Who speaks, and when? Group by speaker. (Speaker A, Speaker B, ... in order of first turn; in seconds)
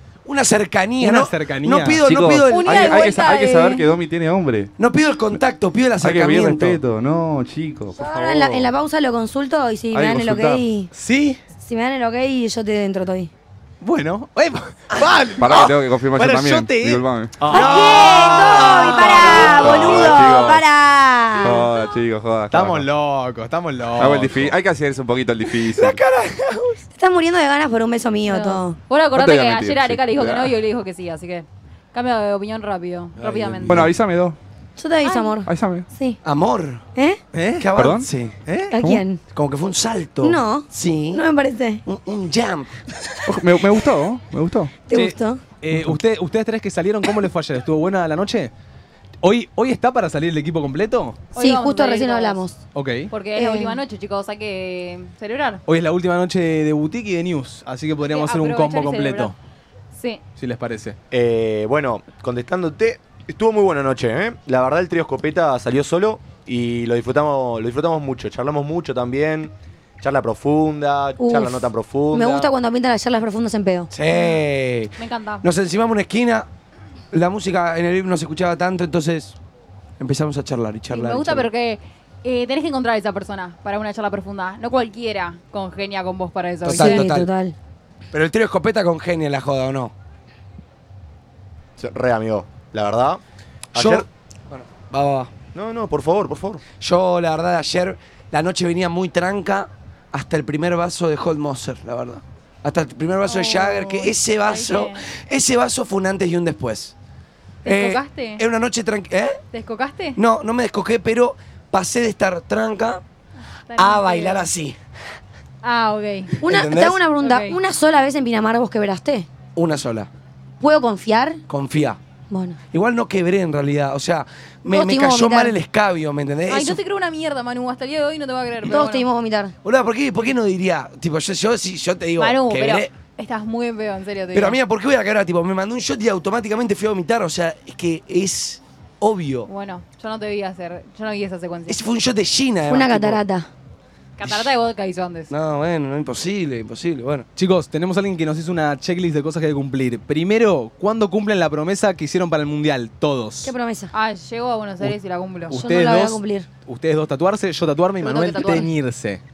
Speaker A: 0.2-3.3, 4.8-6.8, 17.5-20.1, 25.7-26.8, 33.2-33.9, 36.2-36.8, 37.6-38.3, 39.3-41.2, 41.8-42.7, 73.9-76.5, 77.1-79.3, 80.0-81.5, 86.6-87.3, 88.1-89.9, 93.8-95.3, 96.8-106.9, 107.6-109.4, 110.2-113.0, 113.8-114.8, 116.4-117.0, 119.5-120.1, 121.5-122.0, 122.7-126.8, 129.6-132.9, 134.3-139.5, 141.7-143.2, 145.3-147.3
Speaker B: 1.0-2.0, 10.9-11.4, 13.8-19.5, 22.5-24.6, 37.3-37.7, 38.5-38.7, 44.9-48.5, 49.2-51.2, 52.7-53.1, 55.7-59.3, 60.4-61.0, 147.3-153.5, 155.5-159.2
Speaker C: 2.0-4.7, 6.0-8.7, 9.9-10.6, 15.4-17.5, 19.5-20.6, 21.4-22.9, 24.0-26.0, 29.1-30.5, 33.6-34.4, 35.4-35.9, 37.7-38.1, 43.3-44.7, 45.7-46.0
Speaker D: 2.5-3.9, 28.3-33.8, 35.0-35.3, 51.3-52.4, 53.1-55.6, 58.1-59.3, 59.9-60.2, 74.1-74.4, 75.0-75.5, 80.9-87.1, 103.2-105.0, 107.6-108.4, 109.5-110.2, 113.7-114.5, 115.6-116.4, 117.2-117.6, 126.5-129.1, 132.2-134.6, 139.5-141.8, 144.2-145.3, 153.9-155.5, 158.0-158.7
Speaker E: 7.9-10.9, 11.6-13.3, 17.5-21.6, 26.9-28.8, 34.8-36.2, 36.9-37.2, 38.7-39.2, 40.2-41.8, 44.9-45.4, 51.4-52.6, 53.3-53.8, 71.2-73.9, 86.6-87.5, 116.4-119.3, 120.6-121.4, 122.3-122.6, 124.7-125.6, 128.7-129.5, 142.7-143.5, 153.4-153.9, 155.5-156.5
Speaker F: 61.1-72.5, 91.8-93.2, 93.7-94.0, 95.5-96.6